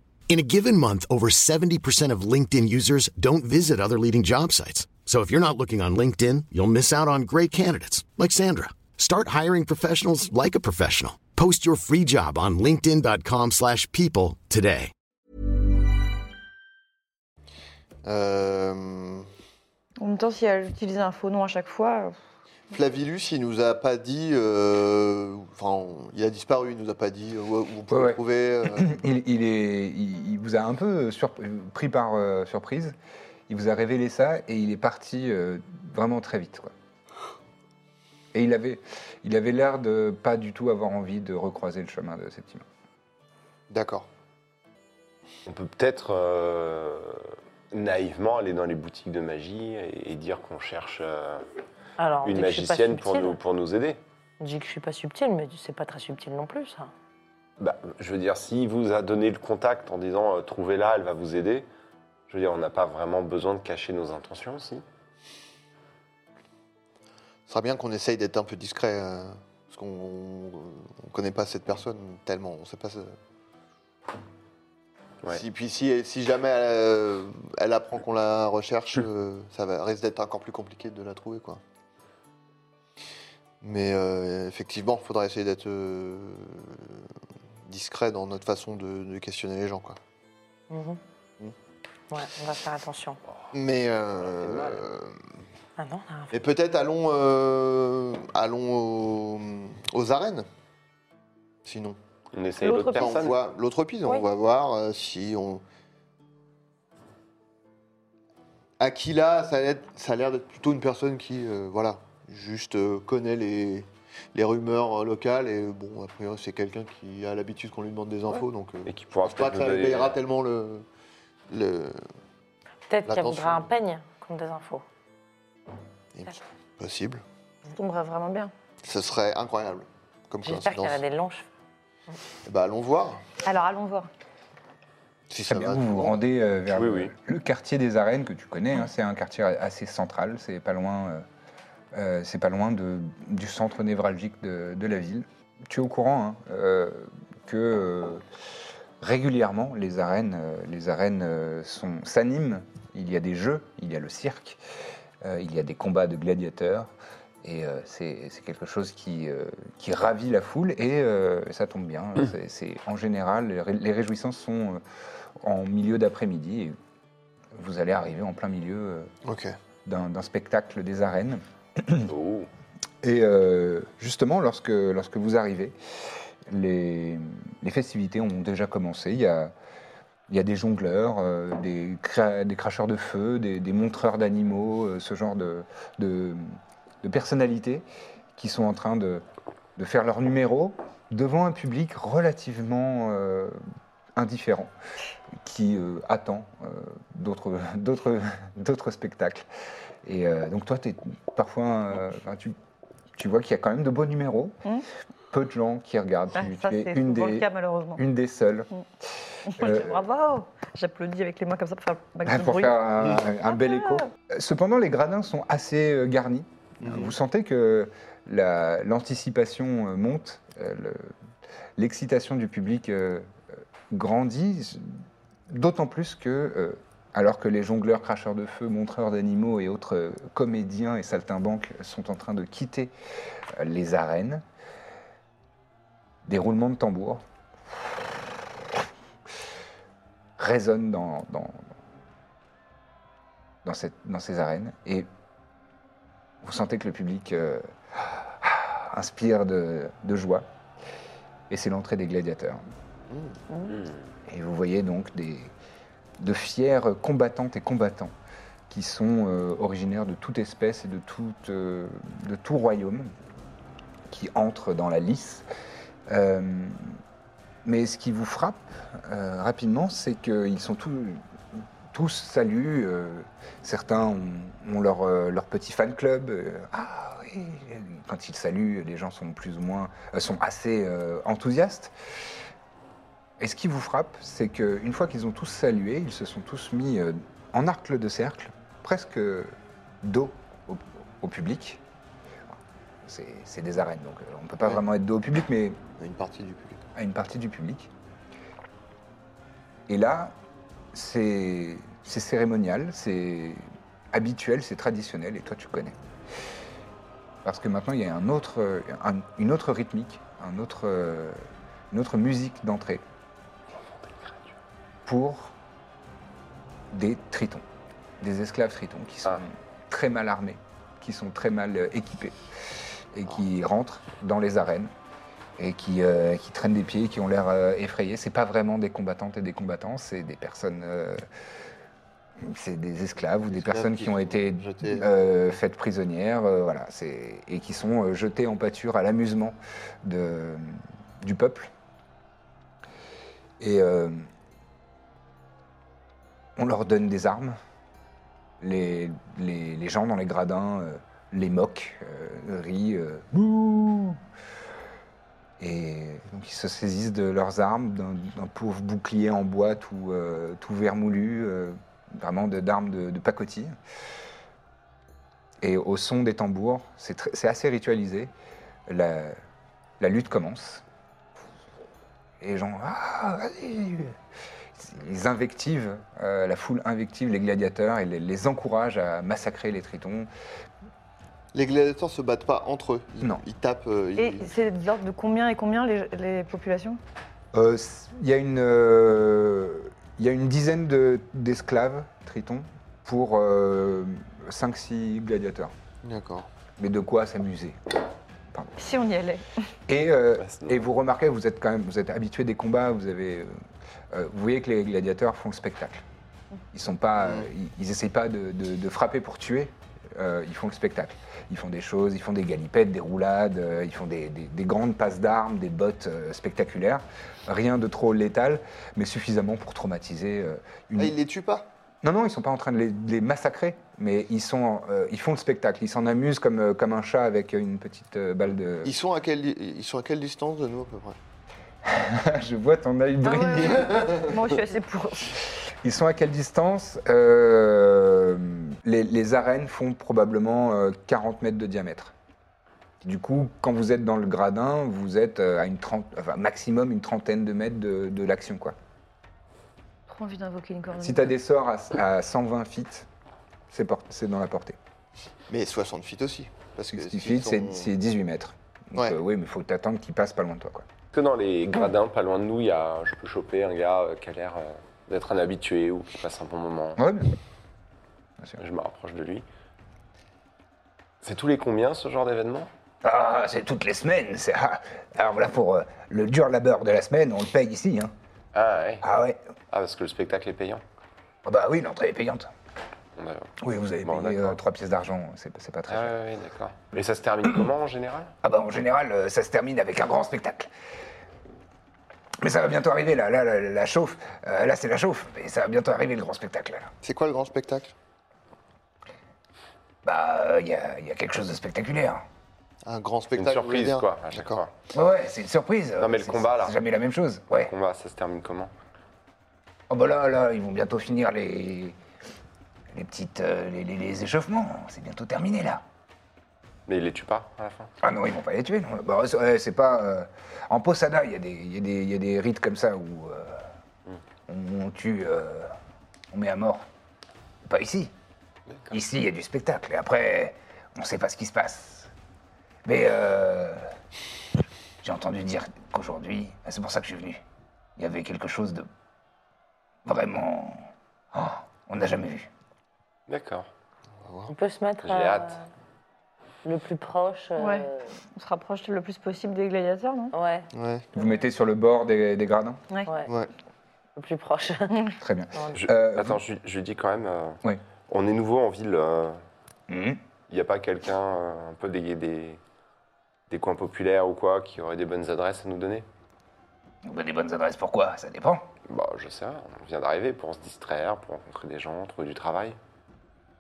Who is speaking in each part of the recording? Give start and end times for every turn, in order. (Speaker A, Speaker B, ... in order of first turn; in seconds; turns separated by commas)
Speaker A: 0.3-14.9, Speaker B: 18.1-19.3, Speaker C: 20.0-22.2, Speaker B: 22.7-29.0, Speaker D: 27.9-33.0, Speaker D: 33.5-36.7, Speaker D: 38.3-42.6, Speaker B: 43.7-44.1, Speaker E: 45.5-51.5, Speaker F: 52.0-53.4, Speaker E: 52.2-54.0, Speaker F: 54.4-56.9, Speaker E: 57.6-61.7, Speaker E: 62.3-64.8, Speaker B: 67.5-73.2, Speaker B: 75.3-81.6, Speaker B: 83.6-87.1, Speaker B: 87.7-90.0, Speaker F: 90.7-91.0, Speaker F: 92.1-93.2, Speaker B: 93.5-95.2, Speaker E: 94.2-94.8, Speaker F: 95.8-96.4, Speaker B: 96.3-100.5, Speaker B: 101.7-102.0, Speaker E: 102.3-103.4, Speaker C: 102.7-103.0, Speaker B: 102.9-105.6, Speaker B: 108.8-120.8, Speaker E: 118.8-120.2, Speaker B: 121.5-122.0, Speaker F: 122.9-124.8, Speaker B: 123.1-123.7, Speaker B: 126.1-127.2, Speaker C: 127.7-128.5, Speaker B: 128.8-131.0, Speaker F: 130.4-131.5, Speaker B: 132.4-133.2, Speaker C: 133.4-134.1, Speaker B: 135.3-136.2, Speaker D: 135.5-141.2, Speaker E: 136.7-137.1, Speaker D: 141.9-148.2, Speaker D: 149.0-154.6, Speaker D: 155.2-156.9, Speaker D: 157.4-164.8, Speaker D: 165.4-166.8, Speaker D: 167.5-169.1, Speaker B: 169.2-169.6, Speaker D: 169.8-172.1, Speaker E: 172.1-172.5, Speaker D: 173.0-175.8, Speaker D: 176.5-179.5, Speaker D: 180.3-189.2, Speaker D: 189.8-193.6, Speaker D: 194.2-194.7, Speaker D: 195.4-199.5, Speaker D: 200.0-202.6, Speaker D: 203.2-204.6, Speaker D: 205.3-208.7, Speaker C: 206.4-208.0, Speaker D: 209.5-210.1, Speaker C: 209.5-212.8, Speaker D: 212.3-221.1, Speaker C: 213.5-214.1, Speaker B: 216.8-217.2, Speaker D: 221.8-223.3, Speaker D: 223.9-232.9, Speaker D: 233.6-234.4, Speaker D: 236.2-237.2, Speaker D: 240.4-241.7, Speaker D: 243.6-245.1, Speaker D: 246.4-250.5, Speaker D: 251.5-252.6, Speaker B: 253.1-253.4, Speaker D: 254.3-255.5, Speaker D: 256.2-258.1, Speaker D: 258.7-263.1, Speaker D: 264.1-265.5, Speaker D: 266.1-267.0, Speaker D: 267.6-281.9, Speaker D: 283.4-291.8, Speaker D: 292.5-295.8, Speaker B: 296.0-296.8, Speaker D: 296.9-297.9, Speaker D: 299.9-300.4, Speaker D: 300.9-306.0, Speaker D: 307.4-313.0, Speaker E: 313.9-314.6, Speaker D: 315.1-315.5, Speaker D: 316.9-317.6, Speaker D: 318.2-322.4, Speaker D: 323.1-324.9, Speaker D: 325.6-331.2, Speaker D: 332.4-341.7, Speaker B: 333.5-335.1, Speaker D: 343.6-344.3, Speaker D: 346.6-347.6, Speaker D: 348.6-354.2, Speaker D: 355.6-363.8, Speaker D: 365.6-368.3, Speaker D: 368.9-369.4, Speaker D: 370.0-370.8, Speaker D: 372.4-374.2, Speaker D: 374.8-380.3, Speaker B: 381.5-384.5, Speaker C: 384.2-387.0, Speaker D: 387.5-395.7, Speaker B: 396.0-396.5, Speaker D: 396.8-397.8, Speaker C: 398.8-399.5, Speaker D: 399.9-403.5, Speaker E: 400.4-400.9, Speaker D: 404.1-406.0, Speaker D: 406.7-421.1, Speaker B: 407.2-407.5, Speaker B: 421.0-421.7, Speaker D: 422.0-428.9, Speaker B: 428.8-431.2, Speaker D: 431.8-434.3, Speaker C: 433.2-435.4, Speaker B: 433.8-434.4, Speaker D: 435.8-442.1, Speaker D: 443.0-448.8, Speaker C: 450.1-451.3, Speaker D: 451.0-453.1, Speaker D: 453.7-454.8, Speaker B: 455.5-457.9, Speaker D: 456.9-460.9, Speaker E: 461.1-467.0, Speaker D: 467.0-467.4, Speaker E: 468.6-469.4, Speaker E: 471.2-472.7, Speaker D: 473.0-478.1, Speaker E: 478.5-479.1, Speaker D: 479.0-479.4, Speaker E: 479.7-480.8, Speaker D: 481.4-482.5, Speaker E: 483.2-484.6, Speaker D: 483.6-486.2, Speaker E: 485.9-488.3, Speaker D: 488.4-490.7, Speaker D: 492.4-496.9, Speaker B: 497.0-497.9, Speaker D: 500.0-502.2, Speaker B: 502.9-504.6, Speaker E: 503.4-504.7, Speaker D: 504.9-507.7, Speaker E: 506.0-506.8, Speaker E: 507.7-508.7, Speaker D: 509.9-512.0, Speaker D: 512.9-515.8, Speaker E: 516.9-517.9, Speaker D: 518.0-523.7, Speaker D: 524.5-525.8, Speaker D: 526.3-526.9, Speaker D: 527.7-528.1, Speaker E: 528.7-528.9, Speaker D: 528.9-532.1, Speaker D: 532.9-533.9, Speaker D: 535.0-537.4, Speaker D: 538.0-538.9, Speaker D: 540.0-542.5, Speaker E: 543.3-543.7, Speaker B: 544.2-544.5, Speaker F: 544.5-545.7, Speaker E: 545.0-545.6, Speaker F: 546.6-548.1, Speaker C: 547.6-550.3, Speaker F: 550.3-550.7, Speaker B: 550.7-551.1, Speaker D: 551.1-552.8, Speaker F: 553.0-553.3, Speaker F: 554.2-555.9, Speaker C: 554.9-555.2, Speaker D: 555.2-556.4, Speaker E: 555.8-559.4, Speaker D: 559.9-560.2, Speaker E: 560.5-562.6, Speaker E: 563.5-566.1, Speaker D: 567.0-568.7, Speaker E: 568.9-572.8